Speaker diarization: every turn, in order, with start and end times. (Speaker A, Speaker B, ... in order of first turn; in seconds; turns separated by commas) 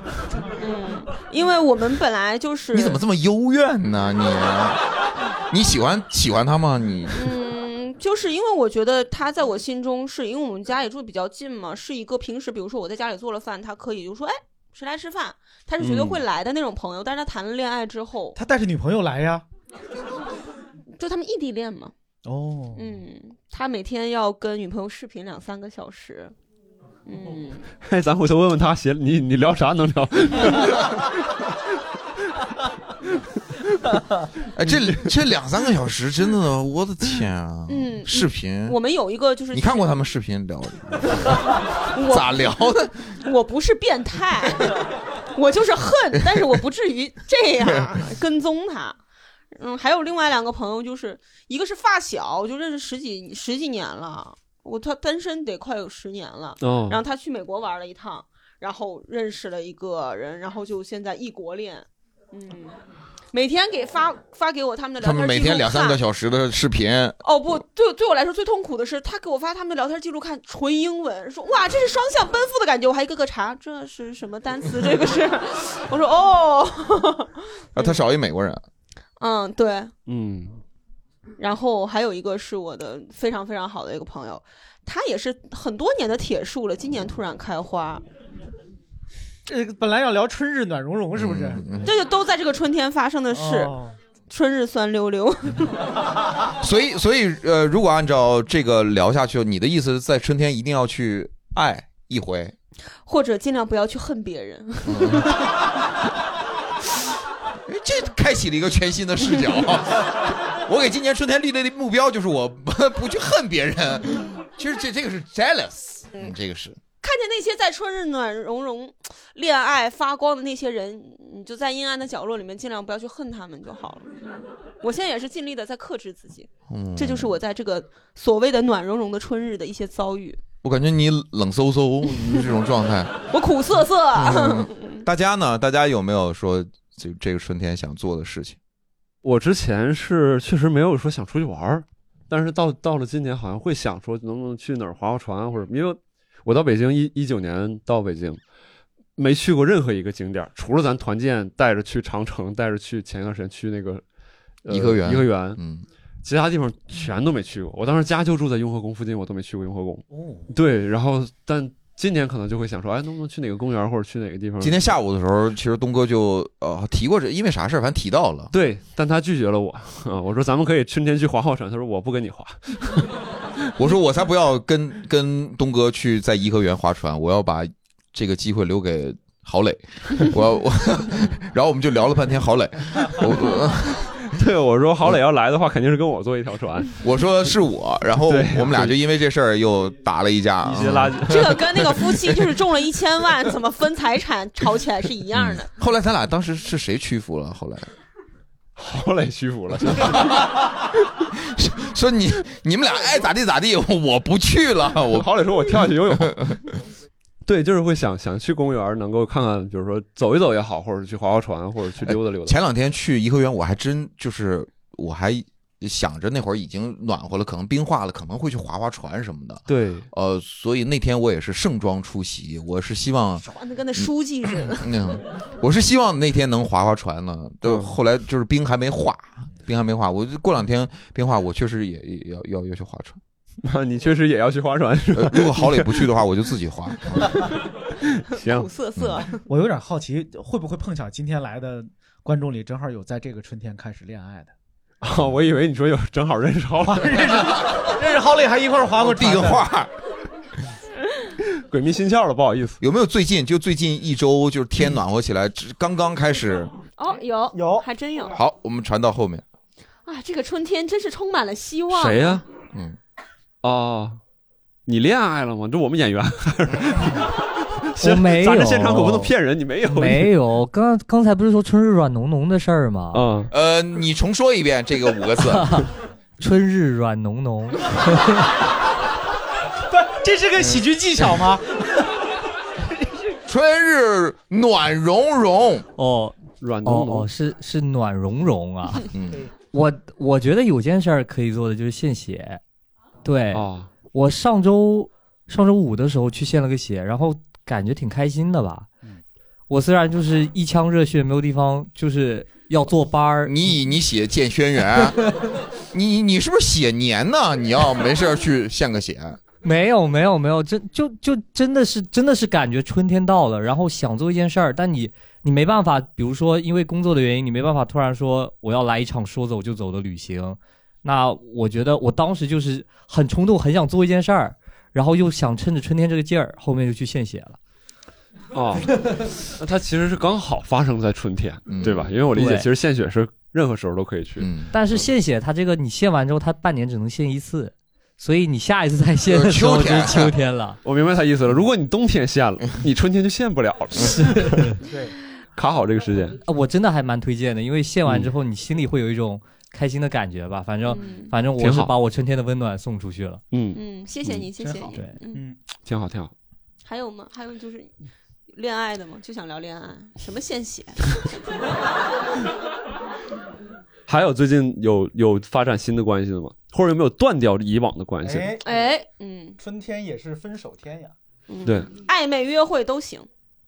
Speaker A: 0.6-3.0, Speaker B: 2.7-4.8, Speaker B: 5.5-7.3, Speaker A: 7.2-18.4, Speaker C: 15.8-16.2, Speaker D: 18.4-19.4, Speaker A: 21.0-21.9, Speaker D: 22.2-23.0, Speaker A: 22.7-26.3, Speaker A: 27.1-27.7, Speaker C: 27.8-31.1, Speaker B: 34.5-38.8, Speaker A: 37.7-39.9, Speaker B: 39.5-43.2, Speaker A: 41.9-42.5, Speaker A: 43.2-44.8, Speaker A: 45.3-49.0, Speaker B: 46.2-46.6, Speaker A: 49.5-62.8, Speaker C: 56.6-57.0, Speaker A: 63.3-66.0, Speaker B: 65.0-67.2, Speaker A: 67.2-78.0, Speaker B: 77.7-78.6, Speaker A: 79.2-79.9, Speaker C: 80.1-80.6, Speaker A: 81.4-88.0, Speaker D: 89.5-91.8, Speaker B: 91.1-91.9, Speaker A: 91.8-93.7, Speaker D: 93.3-94.0, Speaker A: 94.3-96.0, Speaker B: 96.6-102.5, Speaker A: 103.0-105.3, Speaker B: 104.8-105.3, Speaker B: 107.7-116.8, Speaker A: 117.0-124.2, Speaker A: 124.8-130.4, Speaker B: 126.7-127.3, Speaker B: 130.6-133.2, Speaker A: 133.3-135.0, Speaker B: 134.2-138.6, Speaker C: 139.2-148.4, Speaker C: 149.2-154.0, Speaker C: 154.6-155.6, Speaker B: 154.7-155.8, Speaker C: 156.2-164.9, Speaker D: 160.1-160.5, Speaker B: 164.6-168.5, Speaker C: 168.5-173.2, Speaker B: 173.8-184.2, Speaker C: 184.3-186.9, Speaker B: 187.0-192.2, Speaker C: 188.2-188.9, Speaker C: 190.6-191.9, Speaker A: 191.2-195.7, Speaker B: 195.3-197.9, Speaker C: 198.8-200.5, Speaker B: 200.0-200.6, Speaker B: 201.4-206.8, Speaker C: 205.1-206.4, Speaker C: 207.4-212.6, Speaker B: 212.0-233.2, Speaker C: 219.7-220.1, Speaker A: 223.5-224.9, Speaker C: 227.6-227.9, Speaker C: 233.6-236.1, Speaker B: 235.1-237.5, Speaker C: 238.3-238.7, Speaker A: 238.4-239.4, Speaker B: 239.0-239.2, Speaker D: 239.5-244.5, Speaker C: 245.0-247.8, Speaker D: 246.8-249.7, Speaker B: 249.0-249.9, Speaker C: 251.6-252.8, Speaker B: 252.8-256.7, Speaker A: 257.0-258.4, Speaker D: 257.5-257.9, Speaker B: 258.3-259.4, Speaker A: 260.0-262.4, Speaker C: 261.9-262.4, Speaker C: 263.6-264.2, Speaker C: 264.9-270.3, Speaker E: 268.0-269.3, Speaker E: 269.8-273.2, Speaker C: 273.1-273.5, Speaker B: 273.5-275.9, Speaker E: 275.5-275.9, Speaker E: 276.4-278.5, Speaker D: 279.9-282.0, Speaker B: 283.4-285.9, Speaker E: 286.0-289.1, Speaker C: 286.6-287.3, Speaker B: 289.1-289.5, Speaker E: 289.7-292.6, Speaker E: 293.2-298.9, Speaker C: 293.5-293.9, Speaker E: 299.7-303.6, Speaker B: 303.4-305.2, Speaker B: 305.9-309.4, Speaker E: 309.6-327.6, Speaker C: 328.5-334.5, Speaker B: 331.7-332.3, Speaker E: 332.3-332.7, Speaker B: 334.4-334.7, Speaker E: 334.7-340.8, Speaker B: 339.3-340.4, Speaker C: 340.8-344.7, Speaker D: 344.9-345.1, Speaker C: 345.6-346.4, Speaker E: 346.4-353.4, Speaker A: 350.9-351.4, Speaker C: 351.6-351.9, Speaker C: 353.5-354.4, Speaker A: 353.7-355.4, Speaker D: 354.6-355.6, Speaker C: 355.8-356.3, Speaker A: 356.8-357.9, Speaker A: 358.5-361.2, Speaker C: 364.1-368.6, Speaker D: 368.2-368.9, Speaker A: 368.6-369.6, Speaker D: 369.6-371.1, Speaker A: 371.5-373.3